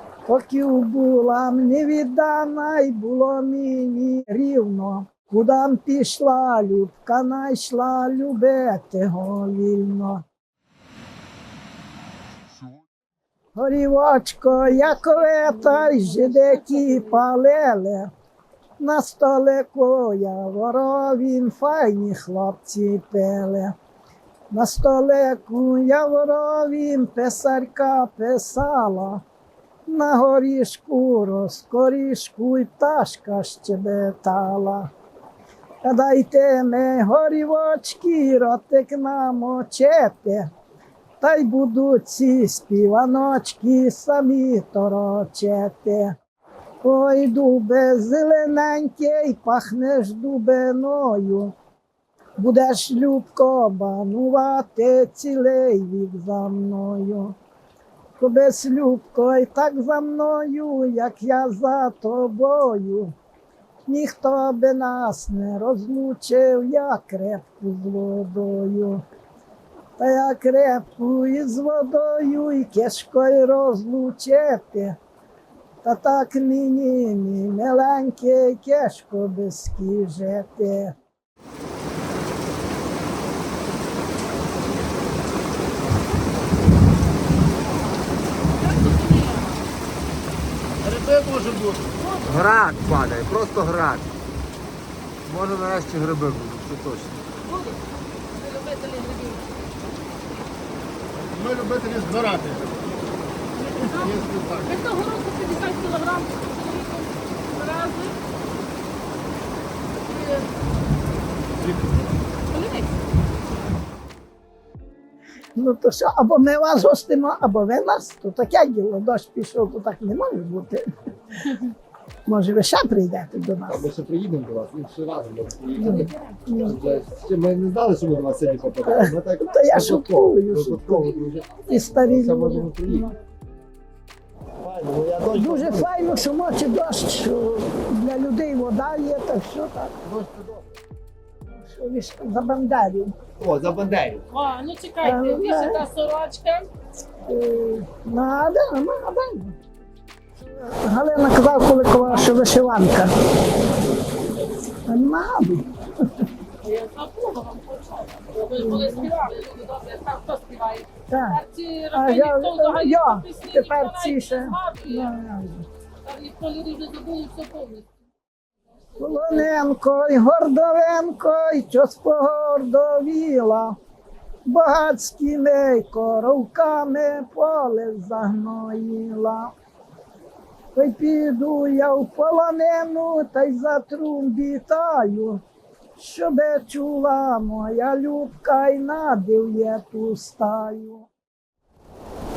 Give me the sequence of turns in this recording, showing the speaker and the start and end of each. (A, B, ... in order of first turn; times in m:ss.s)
0:00.2-0:10.2 A
0:13.6-0:18.1 A
0:15.0-0:17.2 B
0:18.8-0:23.7 A
0:24.5-0:29.2 A
0:29.9-0:34.9 A
0:35.8-0:40.5 A
0:41.2-0:46.2 A
0:46.8-0:51.5 A
0:52.4-0:57.4 A
0:58.2-1:03.1 A
1:03.8-1:09.0 A
1:10.0-1:15.0 A
1:15.8-1:20.9 A
1:28.5-1:29.6 B
1:30.9-1:31.8 C
1:32.0-1:32.4 B
1:32.2-1:34.1 D
1:35.3-1:37.2 D
1:37.4-1:37.8 B
1:38.4-1:39.5 B
1:41.3-1:42.7 C
1:43.5-1:48.2 B
1:50.1-1:50.5 B
1:52.5-1:52.9 B
1:55.6-2:00.9 A
2:02.3-2:03.9 A
2:03.7-2:13.1 D
2:05.8-2:06.8 A
2:05.8-2:06.5 B
2:08.8-2:11.1 A
2:11.7-2:13.2 A
2:14.6-2:16.0 D
2:15.3-2:19.9 A
2:20.0-2:20.6 D
2:21.5-2:23.1 A
2:23.4-2:24.2 D
2:24.3-2:26.7 B
2:25.0-2:25.8 A
2:27.3-2:29.6 A
2:30.4-2:33.1 A
2:34.8-2:35.7 A
2:36.6-2:45.2 B
2:38.6-2:39.1 A
2:41.1-2:41.4 A
2:41.9-2:45.7 A
2:46.0-2:47.9 B
2:48.9-2:49.5 B
2:49.0-2:53.8 A
2:54.4-2:59.5 A
3:00.8-3:05.4 A
3:06.0-3:11.1 A